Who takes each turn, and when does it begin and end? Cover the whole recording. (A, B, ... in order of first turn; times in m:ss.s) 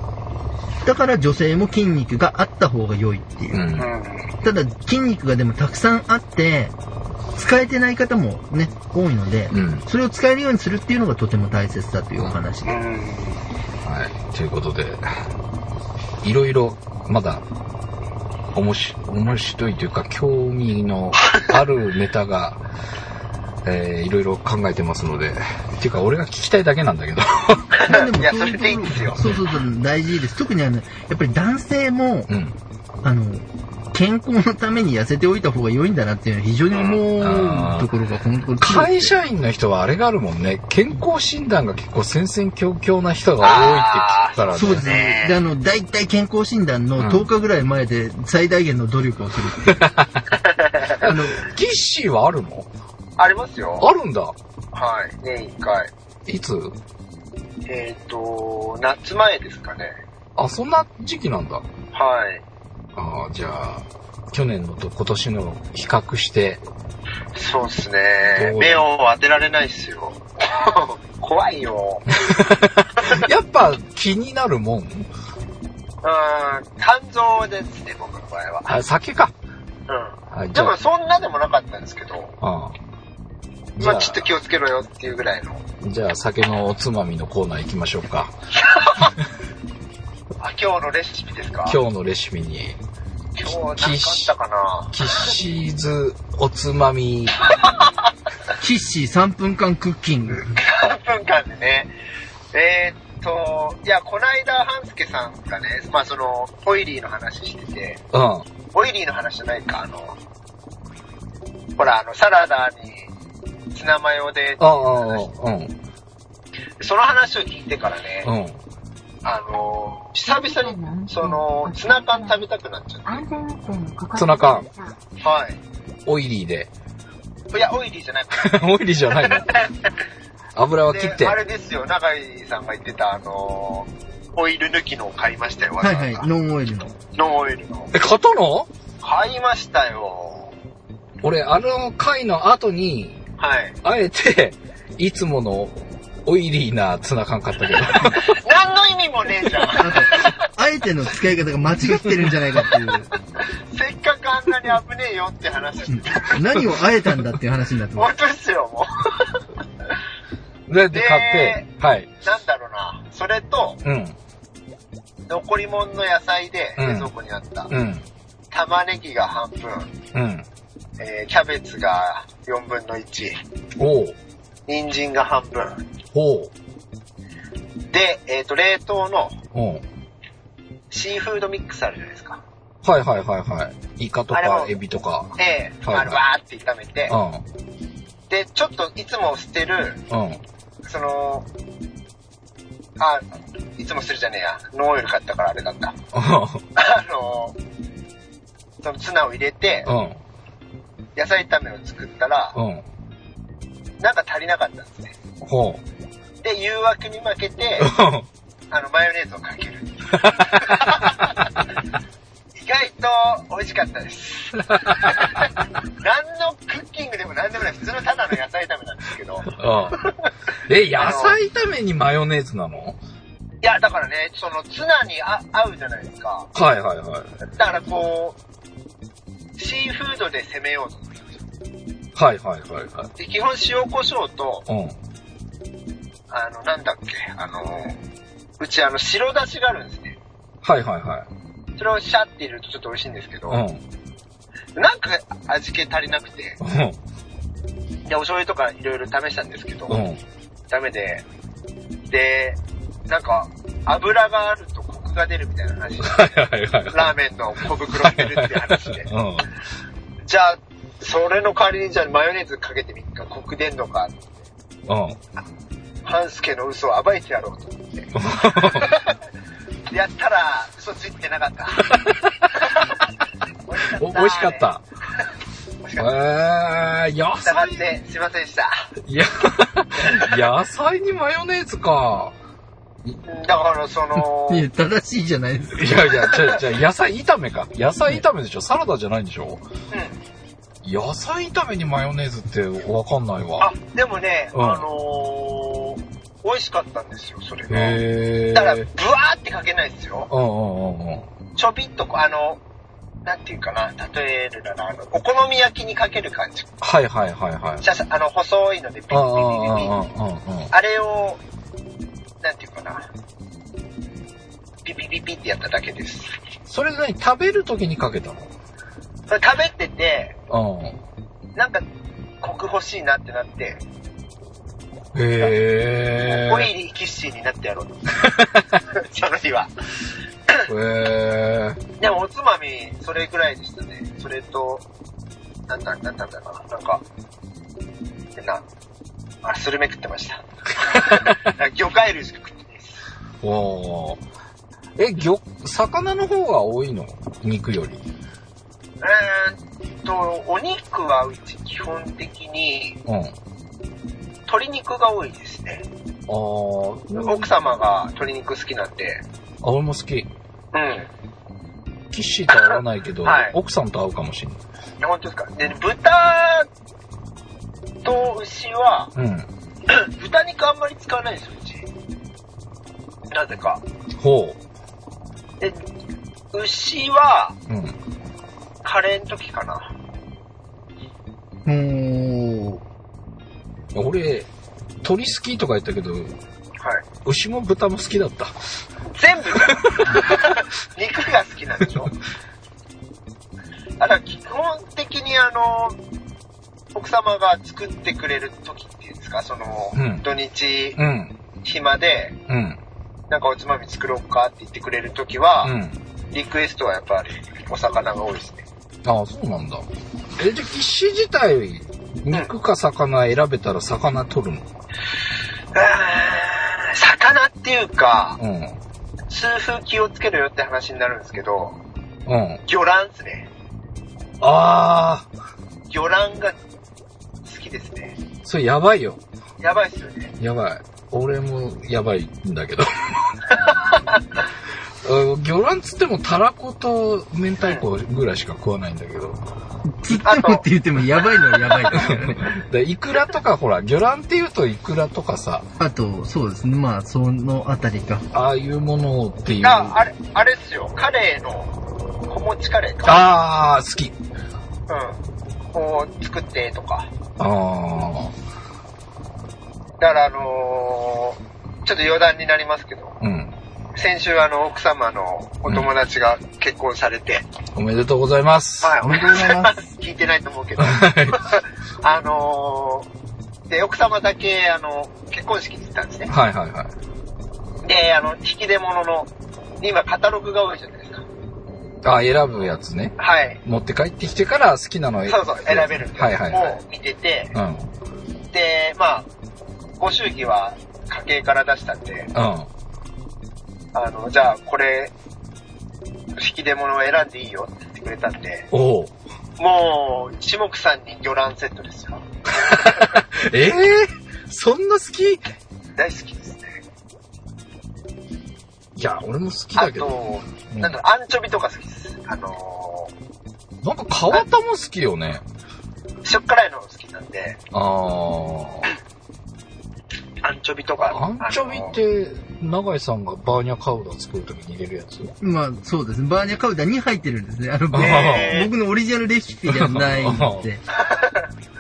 0:00.8-0:03.7 A
0:03.5-0:03.9 B
0:03.8-0:04.3 C
0:04.4-0:06.7 A
0:07.4-0:12.8 A
0:09.5-0:09.8 B
0:12.7-0:13.4 C
0:13.8-0:15.1 B
0:16.2-0:17.4 B
0:18.5-0:22.6 B
0:23.6-0:27.8 B
0:27.8-0:29.2 C
0:27.9-0:32.3 A
0:32.3-0:32.6 B
0:33.0-0:39.1 A
0:36.7-0:37.0 C
0:37.2-0:37.9 B
0:38.6-0:45.0 B
0:43.4-0:45.4 C
0:44.5-0:49.9 A
0:47.0-0:47.3 B
0:49.6-0:50.3 B
0:50.5-0:51.0 C
0:50.9-0:52.7 B
0:51.0-0:51.4 A
0:53.2-0:53.9 C
0:53.8-0:54.3 B
0:54.7-0:55.9 C
0:56.3-0:56.8 B
0:57.7-0:59.9 C
1:00.4-1:01.6 B
1:01.9-1:02.4 C
1:03.0-1:06.6 B
1:07.4-1:12.1 C
1:08.3-1:08.8 B
1:12.2-1:15.1 B
1:16.0-1:18.8 C
1:18.7-1:19.3 B
1:19.9-1:22.4 C
1:20.3-1:20.8 B
1:22.4-1:22.8 B
1:23.8-1:24.3 B
1:23.8-1:25.6 C
1:25.8-1:28.3 B
1:28.6-1:29.1 C
1:30.4-1:31.8 C
1:31.6-1:32.8 B
1:33.4-1:35.1 C
1:33.5-1:34.3 B
1:34.9-1:37.4 B
1:38.6-1:40.6 A
1:40.6-1:41.9 C
1:42.5-1:48.0 C
1:48.1-1:48.5 B
1:48.7-1:50.2 C
1:51.8-1:53.1 C
1:53.7-1:55.2 C
1:54.6-1:55.8 B
1:56.8-1:58.3 C
1:58.2-1:58.6 B
1:59.2-2:03.2 C
2:00.3-2:02.5 D
2:03.1-2:05.0 D
2:04.2-2:04.7 B
2:05.2-2:05.6 C
2:06.1-2:06.7 B
2:07.5-2:09.7 C
2:08.3-2:09.6 B
2:10.5-2:11.4 B
2:10.9-2:16.3 C
2:15.8-2:17.0 A
2:17.2-2:17.9 C
2:17.9-2:18.7 B
2:19.0-2:20.5 C
2:21.2-2:23.2 B
2:23.4-2:23.8 C
2:23.8-2:28.4 B
2:28.2-2:30.4 C
2:29.8-2:33.1 A
2:31.8-2:32.3 B
2:33.7-2:36.4 C
2:35.9-2:38.1 A
2:38.0-2:39.4 C
2:40.7-2:42.1 B
2:40.9-2:41.6 C
2:42.2-2:43.8 C
2:43.8-2:44.2 B
2:45.3-2:47.7 C
2:46.8-2:47.1 B
2:47.7-2:48.0 B
2:48.5-2:49.9 C
2:50.1-2:50.4 B
2:51.0-2:53.4 C
2:53.8-2:54.2 B
2:54.7-2:55.8 C
2:56.1-2:56.5 B
2:57.9-2:59.4 C
2:59.5-2:59.8 B
3:00.9-3:02.4 C
3:02.8-3:06.2 B
3:04.3-3:04.7 C
3:05.4-3:07.2 C
3:07.1-3:07.4 B
3:08.3-3:10.0 C
3:10.1-3:10.4 B
3:10.9-3:11.5 C
3:13.0-3:16.0 C
3:16.1-3:16.6 B
3:16.8-3:17.6 C
3:18.8-3:19.9 C
3:19.9-3:20.2 B
3:21.2-3:22.6 C
3:22.6-3:22.8 B
3:24.0-3:25.2 C
3:25.4-3:25.8 B
3:26.4-3:27.9 C
3:27.8-3:28.3 B
3:28.7-3:31.5 C
3:30.1-3:31.6 B
3:32.6-3:40.3 C
3:34.9-3:35.1 B
3:39.5-3:40.1 B
3:40.7-3:43.0 B
3:41.0-3:41.4 C
3:43.6-3:46.5 C
3:46.5-3:47.3 B
3:47.6-3:48.4 C
3:49.6-3:51.2 C
3:52.2-3:53.1 B
3:53.2-3:54.6 C
3:54.7-3:55.0 B
3:56.3-3:58.0 C
3:58.6-4:00.2 C
4:00.6-4:01.3 B
4:01.8-4:03.6 C
4:03.5-4:03.8 B
4:04.8-4:06.6 C
4:06.6-4:07.0 B
4:08.1-4:10.0 C
4:09.9-4:10.2 B
4:10.7-4:11.2 C
4:12.1-4:16.3 C
4:16.0-4:17.1 B
4:16.9-4:19.1 C
4:17.9-4:19.5 B
4:20.2-4:24.2 C
4:24.9-4:25.2 B
4:26.0-4:29.2 C
4:28.2-4:29.0 B
4:29.9-4:32.0 C
4:31.9-4:32.4 B
4:32.5-4:33.1 C
4:33.7-4:34.7 C
4:33.9-4:34.8 B
4:35.8-4:36.1 C
4:36.0-4:37.9 B
4:37.4-4:38.8 C
4:39.0-4:42.3 B
4:43.2-4:44.7 C
4:44.2-4:46.4 A
4:45.7-4:49.6 B
4:49.9-4:50.2 C
4:50.8-4:53.7 B
4:53.6-4:58.0 C
4:54.5-4:54.9 B
4:57.7-4:58.9 B
4:58.5-5:00.3 C
5:00.3-5:01.3 B
5:01.6-5:02.6 C
5:03.2-5:06.7 C
5:06.8-5:07.8 B
5:07.8-5:09.9 C
5:09.1-5:10.7 B
5:10.7-5:11.4 C
5:12.4-5:13.1 C
5:14.8-5:16.3 C
5:16.7-5:18.5 B
5:19.3-5:20.4 C
5:20.5-5:21.0 B
5:21.6-5:21.8 C
5:22.4-5:23.8 C
5:25.1-5:26.7 B
5:26.2-5:28.3 C
5:28.2-5:28.8 B
5:28.8-5:29.7 C
5:30.7-5:31.8 B
5:32.0-5:34.8 C
5:35.7-5:37.0 C
5:38.4-5:38.6 C
5:39.4-5:43.0 C
5:41.0-5:41.5 B
5:43.4-5:44.2 B
5:45.0-5:48.0 B
5:49.0-5:53.0 C
5:53.1-5:53.4 B
5:54.5-5:55.9 C
5:56.3-5:57.5 B
5:57.1-5:59.2 C
5:59.6-6:00.3 B
6:00.7-6:01.1 C
6:02.1-6:04.6 B
6:03.2-6:03.6 C
6:05.0-6:06.7 C
6:08.0-6:09.1 C
6:09.2-6:09.5 B
6:09.9-6:11.9 C
6:13.3-6:13.8 C
6:14.2-6:14.6 B
6:16.5-6:17.6 C
6:17.7-6:18.0 B
6:18.8-6:19.9 C
6:21.7-6:22.8 A
6:23.9-6:24.5 B
6:25.0-6:26.4 B
6:27.2-6:28.6 B
6:29.1-6:32.2 C
6:29.6-6:30.2 B
6:34.0-6:36.0 C
6:36.9-6:41.0 C
6:39.9-6:40.2 B
6:41.0-6:41.4 B
6:41.6-6:42.4 C
6:42.5-6:42.8 B
6:43.3-6:45.7 C
6:45.6-6:46.0 B
6:46.3-6:48.6 C
6:49.0-6:49.9 B
6:50.4-6:54.7 B
6:55.7-6:58.4 C
6:58.4-6:58.8 B
6:59.3-7:01.8 C
7:02.3-7:02.6 B
7:02.7-7:03.5 C
7:04.4-7:05.3 B
7:05.9-7:06.6 C
7:07.4-7:08.2 C
7:08.4-7:09.2 B
7:09.6-7:10.3 C
7:10.4-7:13.4 B
7:15.0-7:19.4 B
7:19.9-7:22.4 A
7:20.1-7:20.6 C
7:21.4-7:21.9 C
7:21.9-7:25.7 B
7:25.8-7:28.2 A
7:28.3-7:30.0 B
7:29.6-7:31.7 C
7:32.3-7:33.2 C
7:33.0-7:34.2 B
7:34.9-7:35.2 C
7:35.7-7:37.1 C
7:37.4-7:38.3 B
7:40.0-7:43.2 C
7:43.2-7:43.5 B
7:44.0-7:47.5 C
7:47.8-7:49.0 B
7:48.8-7:53.1 C
7:49.0-7:49.9 A
7:50.8-7:51.5 B
7:53.7-7:56.3 C
7:56.3-7:56.9 B
7:57.8-7:59.3 C
7:59.8-8:01.2 C
8:02.0-8:06.8 B
8:03.2-8:03.6 C
8:05.3-8:07.5 C
8:07.5-8:07.9 B
8:08.5-8:09.3 C
8:10.0-8:12.3 C
8:12.3-8:12.7 B
8:13.9-8:15.1 C
8:16.4-8:18.7 C
8:18.7-8:19.1 B
8:19.6-8:22.2 C
8:22.5-8:25.4 B
8:26.0-8:26.8 C
8:29.0-8:31.0 B
8:29.8-8:33.1 C
8:33.8-8:35.4 B
8:36.2-8:37.6 C
8:37.7-8:38.9 B
8:40.4-8:41.9 C
8:41.0-8:45.4 B
8:45.4-8:50.8 A
8:47.9-8:48.6 B
8:47.9-8:48.7 C
8:49.7-8:50.7 B
8:50.9-8:51.5 C